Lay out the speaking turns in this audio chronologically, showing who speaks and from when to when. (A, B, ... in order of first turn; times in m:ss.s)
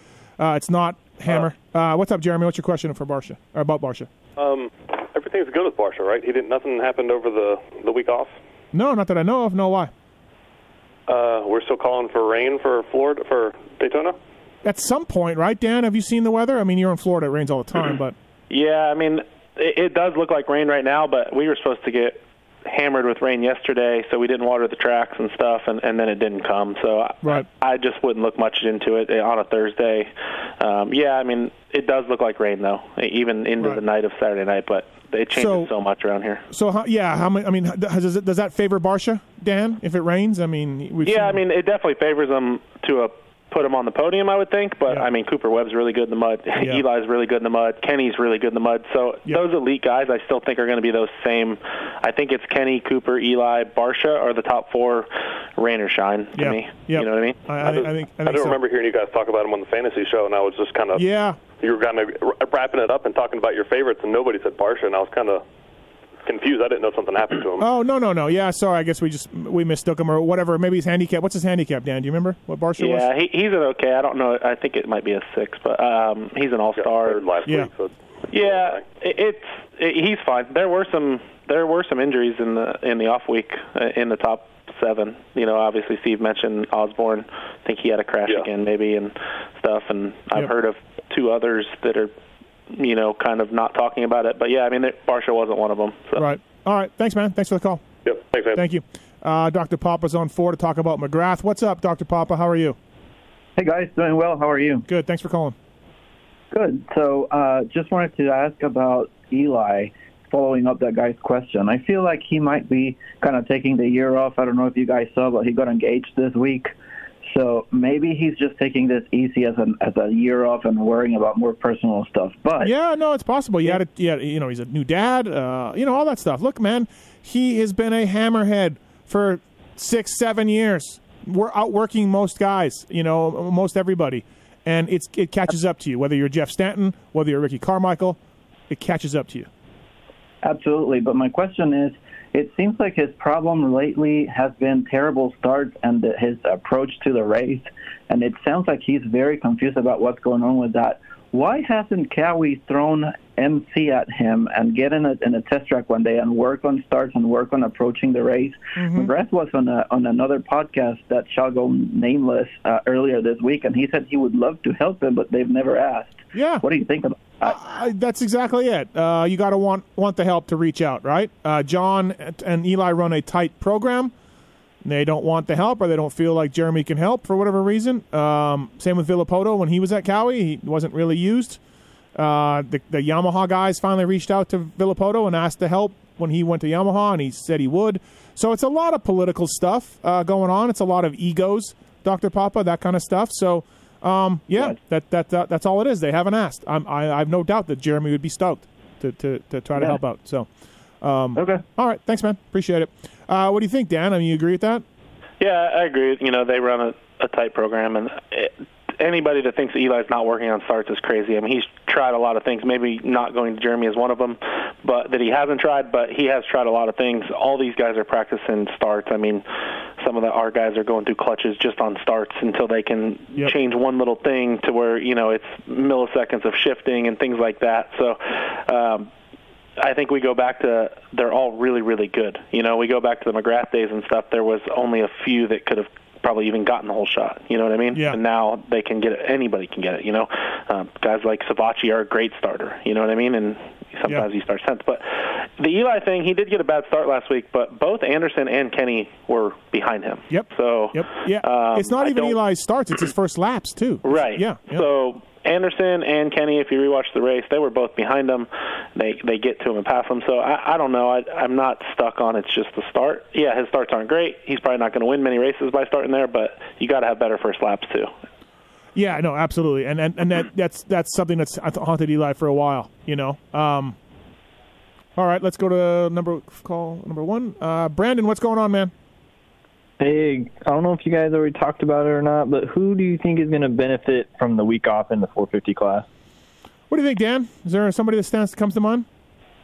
0:00.4-0:04.1 A
0:04.4-0:08.3 B
0:08.7-0:09.9 A
0:11.1-0:14.2 B
0:14.6-0:18.1 A
0:18.5-0:36.4 C
0:35.3-0:35.7 A
0:36.5-0:41.4 A
0:41.0-0:57.4 C
0:56.4-0:58.6 A
0:57.6-1:05.4 B
1:00.9-1:01.4 A
1:06.2-1:07.7 B
1:07.6-1:13.1 A
1:12.8-1:17.2 C
1:16.7-1:18.9 B
1:18.3-1:32.1 C
1:32.7-1:36.3 C
1:36.2-1:37.8 A
1:38.0-1:38.6 B
1:38.5-1:42.8 A
1:43.6-1:44.8 D
1:44.9-1:45.5 A
1:46.5-1:56.7 D
1:57.3-2:02.7 D
2:02.6-2:18.2 A
2:18.7-2:19.5 A
2:20.4-2:47.6 D
2:38.8-2:39.1 A
2:46.3-2:46.6 A
2:47.4-2:54.1 A
2:54.8-3:01.6 A
3:02.2-3:20.5 A
3:21.0-3:24.8 A
3:21.4-3:21.6 D
3:25.4-3:39.4 C
3:40.0-3:49.1 C
3:49.8-4:12.4 C
3:57.9-3:58.2 A
4:10.3-4:14.9 A
4:14.0-4:28.1 C
4:29.0-4:34.0 A
4:35.2-4:38.9 A
4:40.0-4:46.0 E
4:46.9-4:49.0 A